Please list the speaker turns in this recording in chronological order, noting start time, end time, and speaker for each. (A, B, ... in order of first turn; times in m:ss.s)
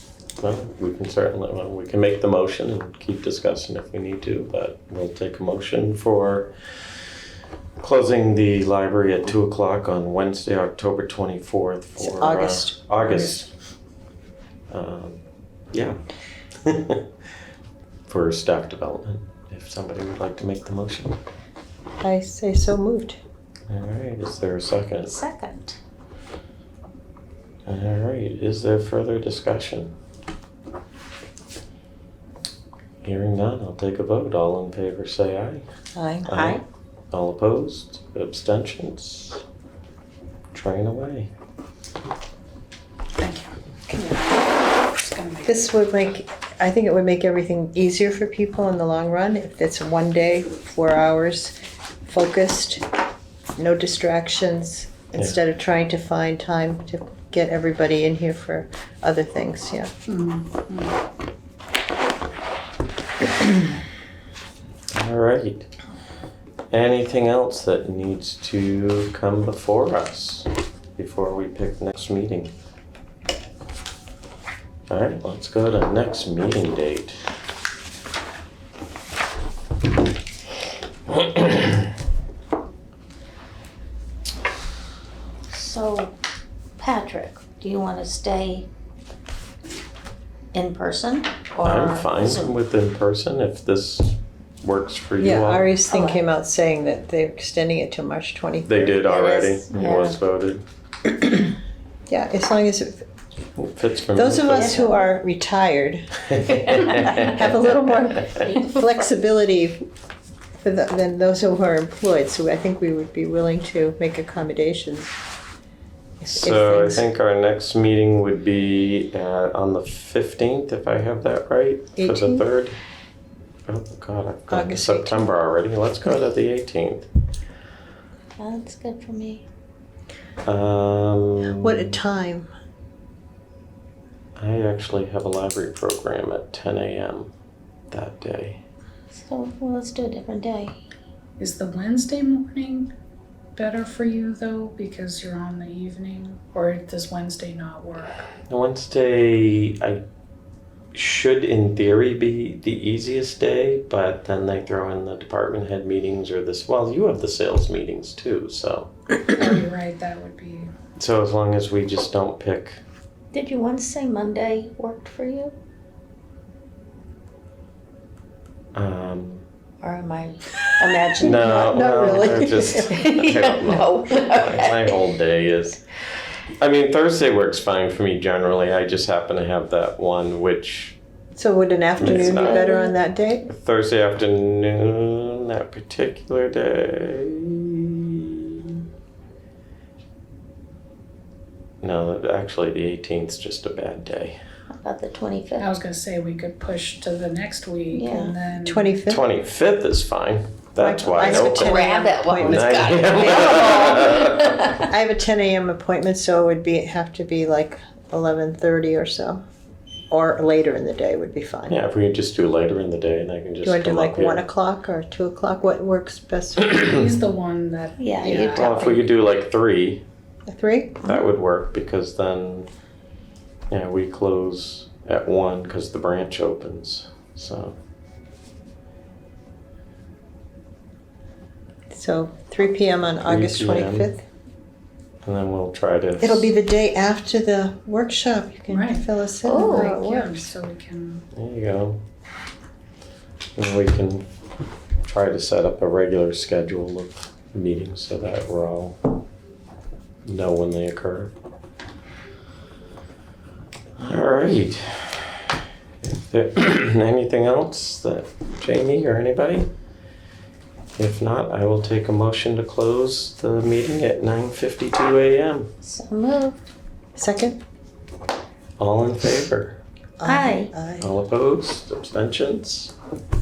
0:00.4-0:06.5 A
0:07.8-0:13.5 A
0:12.0-0:12.8 B
0:14.7-0:16.0 A
0:16.6-0:17.1 A
0:18.1-0:21.2 A
0:22.0-0:23.2 B
0:23.7-0:25.1 A
0:25.0-0:25.8 C
0:27.6-0:29.9 A
0:33.0-0:35.7 A
0:36.0-0:36.6 B
0:36.3-0:39.4 A
0:40.5-0:41.3 A
0:43.2-0:45.7 D
0:45.5-0:52.8 B
0:53.6-0:59.9 B
1:00.1-1:01.0 D
1:04.9-1:05.7 A
1:06.7-1:12.5 A
1:14.9-1:17.2 A
1:21.1-1:21.7 A
1:25.5-1:26.1 C
1:26.8-1:28.7 C
1:30.5-1:32.5 C
1:31.6-1:35.7 A
1:35.2-1:39.5 B
1:35.9-1:36.2 C
1:38.7-1:40.6 A
1:39.1-1:40.2 C
1:42.1-1:43.0 B
1:43.6-1:44.8 A
1:44.1-1:49.8 B
1:44.5-1:45.0 C
1:46.4-1:47.4 A
1:50.6-1:55.1 B
1:56.2-1:57.1 B
1:56.3-2:02.8 A
2:02.0-2:02.4 B
2:03.7-2:07.1 A
2:04.5-2:05.3 B
2:08.4-2:09.4 C
2:10.4-2:12.0 A
2:11.5-2:12.5 B
2:14.4-2:17.3 A
2:17.9-2:18.6 A
2:19.1-2:20.8 C
2:21.4-2:22.9 D
2:23.6-2:28.2 D
2:28.5-2:30.0 A
2:30.9-2:39.1 A
2:39.3-2:40.7 D
2:41.0-2:42.8 A
2:43.3-2:45.5 C
2:48.7-2:49.4 A
2:49.8-2:55.0 C
2:51.1-2:56.0 A
2:51.5-2:52.9 B
2:56.6-3:01.0 A
3:01.4-3:03.4 B
3:02.0-3:02.6 A
3:02.0-3:02.9 C
3:03.5-3:08.8 A
3:11.8-3:14.4 A
3:14.7-3:15.8 C
3:15.6-3:18.9 D
3:17.9-3:18.3 C
3:18.2-3:19.2 B
3:19.1-3:24.7 A
3:20.8-3:23.8 B
3:21.3-3:24.9 C
3:24.7-3:29.4 B
3:30.1-3:31.8 B
3:31.7-3:34.4 A
3:33.6-3:37.0 B
3:36.9-3:38.7 D
3:38.0-3:39.1 C
3:38.3-3:40.0 A
3:40.5-3:41.2 B
3:41.0-3:42.7 A
3:43.7-3:47.8 A
3:51.9-3:54.2 B
3:53.2-3:54.1 A
3:55.2-3:56.5 A
3:56.2-4:00.5 B
3:58.7-3:59.1 D
3:59.4-4:00.2 C
3:59.8-4:01.2 D
4:01.3-4:02.0 A
4:03.6-4:04.3 A
4:05.0-4:09.1 A
4:10.2-4:11.3 A
4:14.0-4:19.7 A
4:21.0-4:25.7 A
4:25.8-4:26.6 C
4:27.2-4:27.6 B
4:28.8-4:29.8 A
4:30.2-4:31.1 B
4:30.2-4:30.7 C
4:31.0-4:32.9 A